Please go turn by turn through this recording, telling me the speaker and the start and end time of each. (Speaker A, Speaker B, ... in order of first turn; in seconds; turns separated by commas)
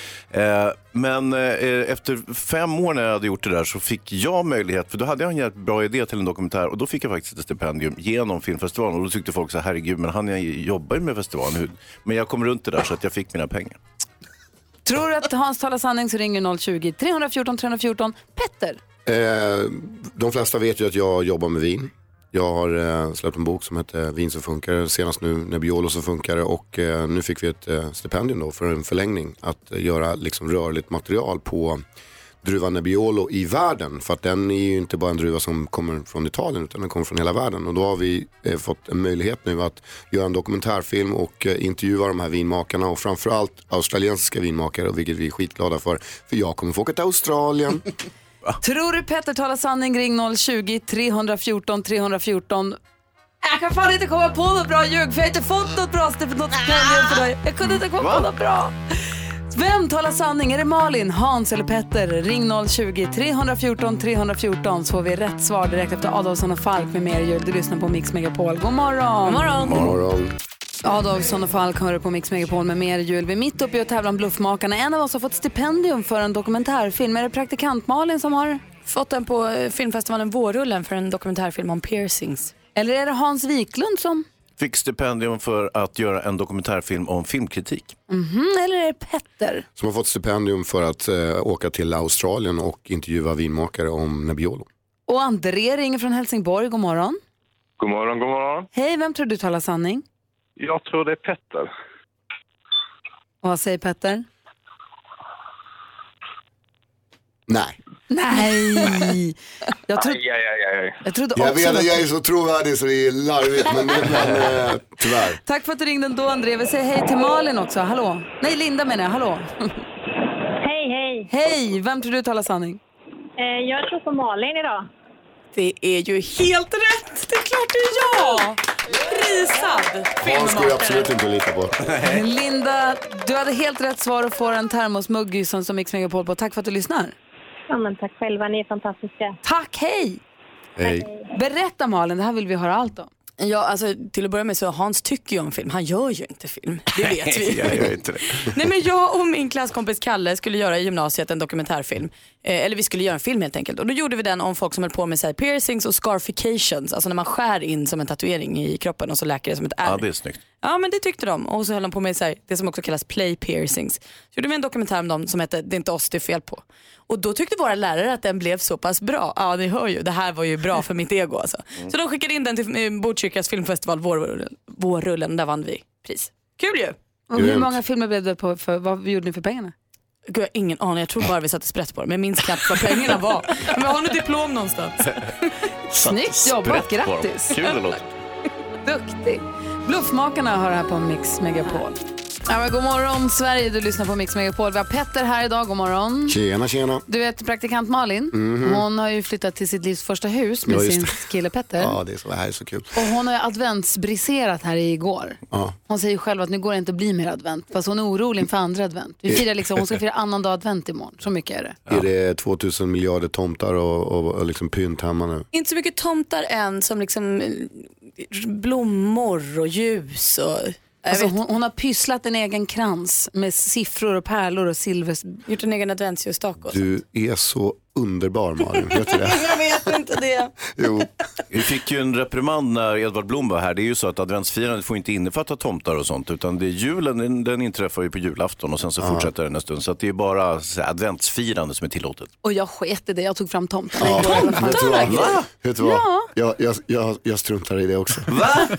Speaker A: 0.3-13.8, Speaker B: 14.8-18.8, Speaker C: 19.1-31.8, Speaker C: 32.4-47.8, Speaker B: 48.6-52.8, Speaker B: 53.4-58.7, Speaker A: 58.0-58.2, Speaker B: 59.5-69.5, Speaker D: 69.2-69.9, Speaker A: 69.6-69.9, Speaker C: 69.7-70.3, Speaker B: 70.8-78.6, Speaker D: 78.8-82.5, Speaker B: 82.7-84.2, Speaker A: 84.6-87.9, Speaker B: 88.1-89.6, Speaker C: 89.8-94.7, Speaker B: 95.1-97.2, Speaker E: 97.8-98.7, Speaker B: 98.7-100.0, Speaker E: 100.6-101.7, Speaker B: 103.4-104.2, Speaker C: 107.5-107.8, Speaker B: 108.1-109.3, Speaker B: 109.9-110.2, Speaker E: 110.0-110.9, Speaker B: 111.0-112.0, Speaker C: 111.3-115.4, Speaker B: 115.4-119.8, Speaker F: 120.6-121.3, Speaker B: 121.3-122.8, Speaker F: 123.4-124.9, Speaker D: 125.5-131.1, Speaker B: 128.0-128.5, Speaker C: 130.2-131.9, Speaker B: 132.0-137.1, Speaker F: 137.7-139.4, Speaker B: 139.4-140.2, Speaker F: 140.8-141.2, Speaker B: 141.3-143.1, Speaker D: 143.4-160.0, Speaker A: 147.0-148.4, Speaker A: 159.8-160.4, Speaker D: 160.6-176.9, Speaker B: 177.3-179.7, Speaker C: 177.3-177.8, Speaker D: 180.3-185.2, Speaker B: 186.0-187.6, Speaker A: 186.3-188.1, Speaker B: 188.8-196.4, Speaker C: 196.3-197.0, Speaker B: 197.1-202.0, Speaker C: 198.3-198.8, Speaker C: 200.7-201.2, Speaker C: 201.8-202.9, Speaker B: 202.9-211.8, Speaker C: 205.5-205.8, Speaker C: 211.9-215.4, Speaker D: 215.5-221.3, Speaker B: 221.1-225.4, Speaker D: 225.5-226.8, Speaker C: 226.7-229.6, Speaker D: 229.2-230.5, Speaker C: 230.7-231.1, Speaker A: 231.5-242.3, Speaker C: 239.0-239.3, Speaker B: 242.4-246.3, Speaker C: 244.0-248.4, Speaker A: 245.0-245.5, Speaker A: 248.3-248.6